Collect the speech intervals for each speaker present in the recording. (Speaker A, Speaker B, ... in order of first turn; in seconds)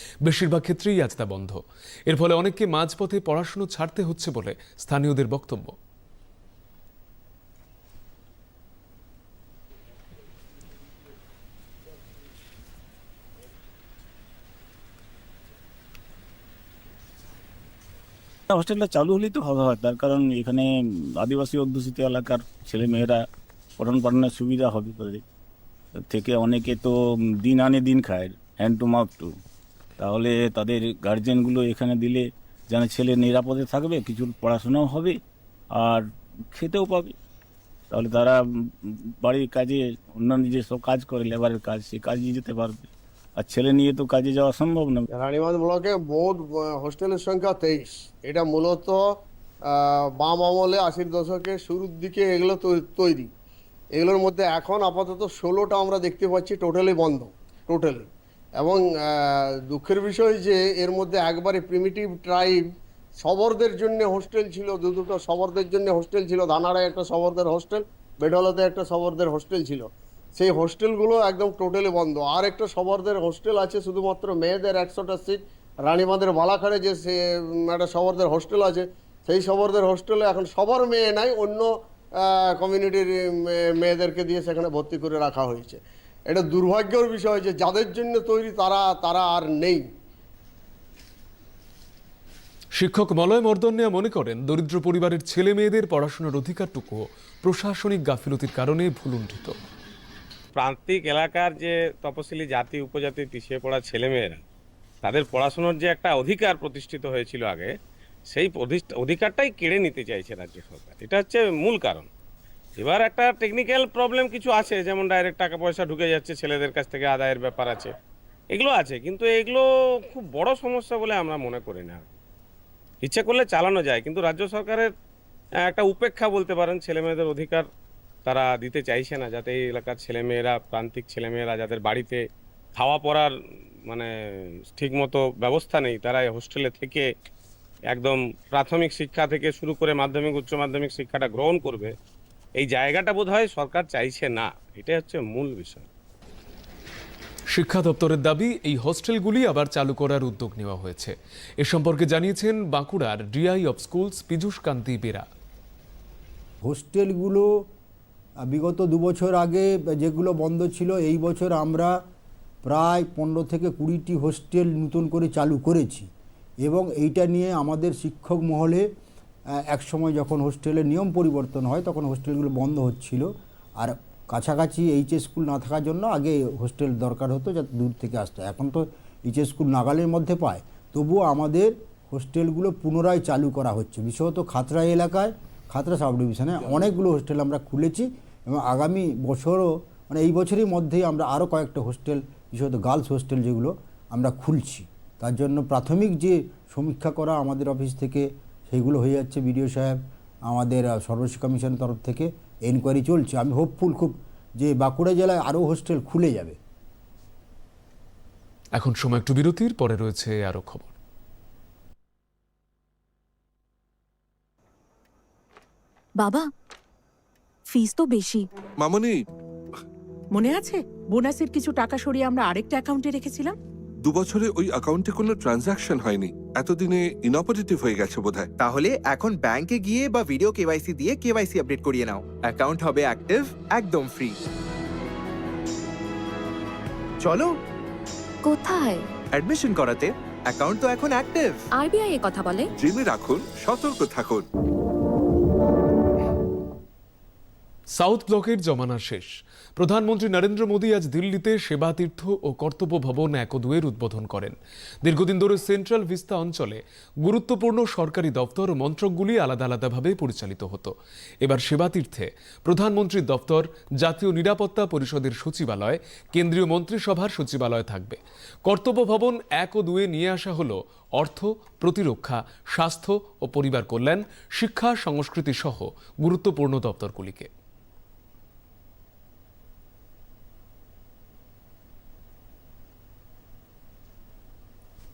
Speaker A: 0.2-5.8, 92.8-99.6, 147.5-155.3, 208.8-210.9, 247.9-277.5
Speaker B: 18.5-23.3, 23.8-25.2, 26.0-29.4, 30.0-35.2, 35.7-37.2, 37.9-45.0
Speaker C: 45.1-53.3, 54.0-62.6, 63.2-89.9
Speaker D: 100.5-104.4, 105.0-107.7, 108.3-112.1, 112.8-117.9, 118.5-122.1, 123.0-124.9, 125.6-127.7, 128.3-132.2, 132.8-133.3, 134.7-137.1, 137.9-141.9, 142.6-145.9
Speaker E: 156.6-157.7, 158.4-162.0, 162.7-166.1, 166.6-168.9, 169.7-206.6
Speaker F: 216.2-216.5, 217.7-218.4, 220.3-223.6, 238.4-239.1, 241.7-242.7
Speaker G: 218.8-219.1, 224.1-228.5, 242.8-244.4
Speaker H: 228.6-234.4, 237.2-237.5, 239.3-241.7